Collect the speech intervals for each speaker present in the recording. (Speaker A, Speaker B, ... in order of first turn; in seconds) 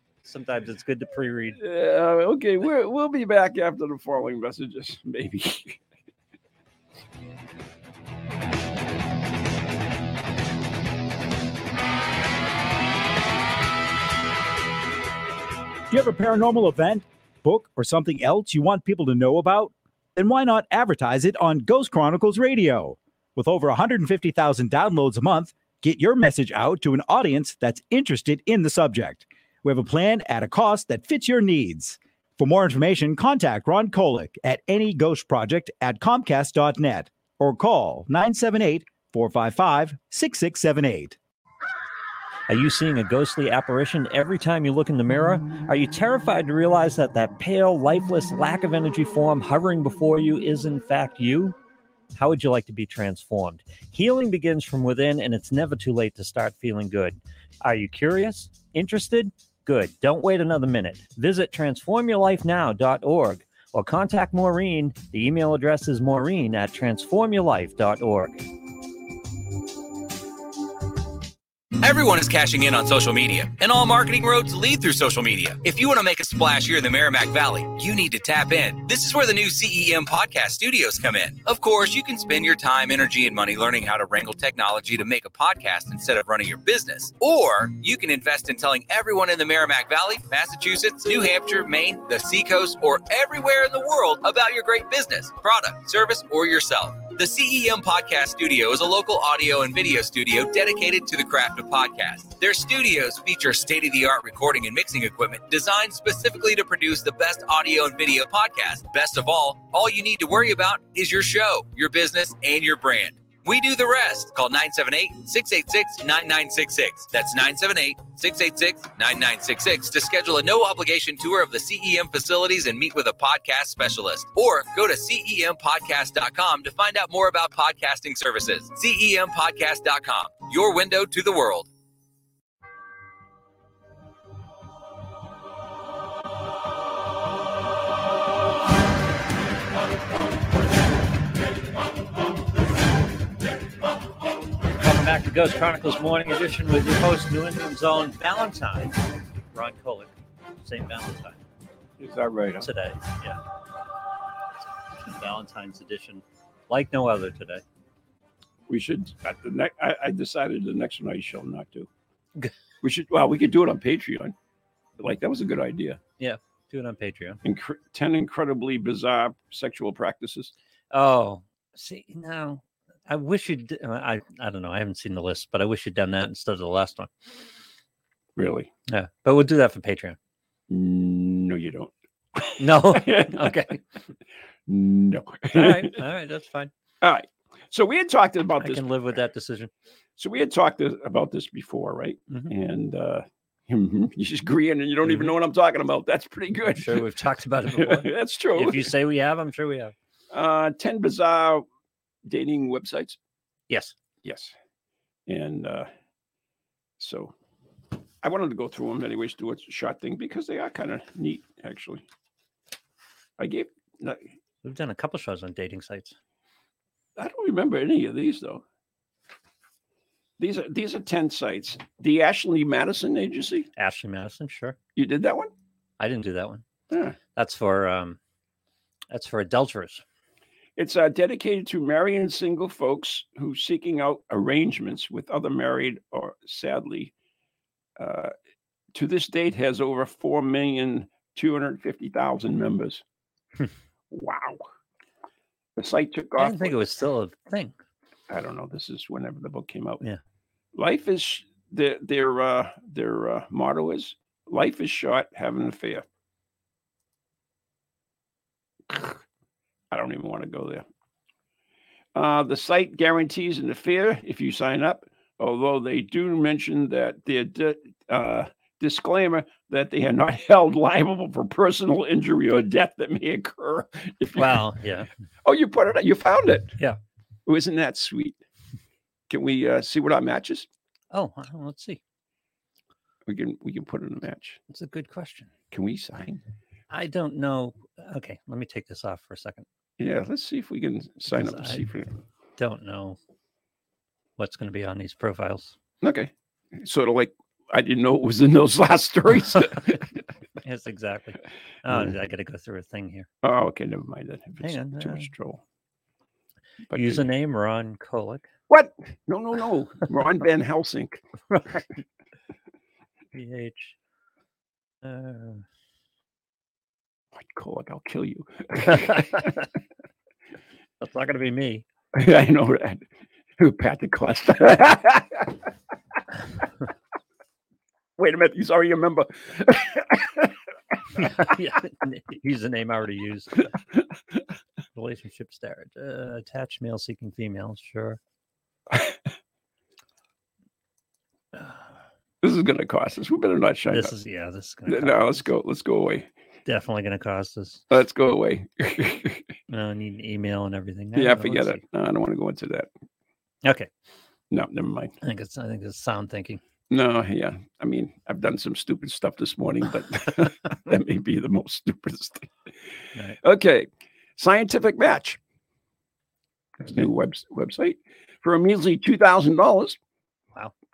Speaker A: 0.2-1.6, 42.5-51.6, 52.1-68.4, 144.8-150.1, 150.6-151.4, 152.6-153.4, 155.0-157.6, 166.2-167.4, 170.9-177.1, 178.9-180.2, 182.6-183.8, 185.5-186.7, 188.6-189.7, 195.0-195.3, 196.7-199.9, 203.7-203.9, 214.6-216.1, 223.8-224.8, 226.0-226.6, 227.3-228.2, 229.1-230.0, 246.4-247.8, 274.4-275.1, 281.1-282.0, 284.7-285.5, 286.9-289.6, 291.2-291.9, 292.6-293.2, 294.4-295.7, 300.6-303.3, 304.6-305.3, 306.9-308.5, 311.5-311.8, 313.3-313.9, 315.0-315.6, 318.9-319.6, 321.0-321.8, 331.1-333.7, 334.9-338.2, 343.9-345.4, 346.6-347.8, 349.7-351.8, 353.6-353.9, 355.2-356.6, 363.1-363.4
Speaker B: 1.6-5.8, 152.0-152.7, 158.7-161.9, 162.8-164.3, 165.0-166.0, 167.4-170.5, 178.4-178.7, 180.7-183.6, 184.7-186.0, 187.0-188.8, 190.2-197.0, 197.7-198.9, 200.3-201.7, 202.2-203.2, 204.2-204.5, 205.3-205.9, 207.0-207.3, 208.2-212.0, 213.4-214.2, 217.2-218.6, 220.4-223.7, 224.9-225.5, 226.9-227.2, 230.8-237.1, 238.0-238.3, 238.9-243.0, 244.1-244.6, 245.8-246.8, 248.3-250.0, 250.7-256.0, 258.9-259.2, 259.9-260.8, 262.1-274.6, 275.4-276.8, 277.4-278.4, 279.3-280.7, 283.3-284.6, 285.7-286.4, 290.0-292.1, 296.0-300.2, 303.4-305.6, 306.9-307.2, 308.7-311.2, 317.4-319.5, 322.1-323.0, 323.6-325.5, 328.2-330.5, 342.4-344.1, 344.9-346.3, 347.9-349.4, 351.1-352.9, 354.5-355.1, 356.9-362.5, 363.4-363.9, 364.4-365.4, 366.8-370.0
Speaker C: 15.9-41.2
Speaker D: 71.8-131.7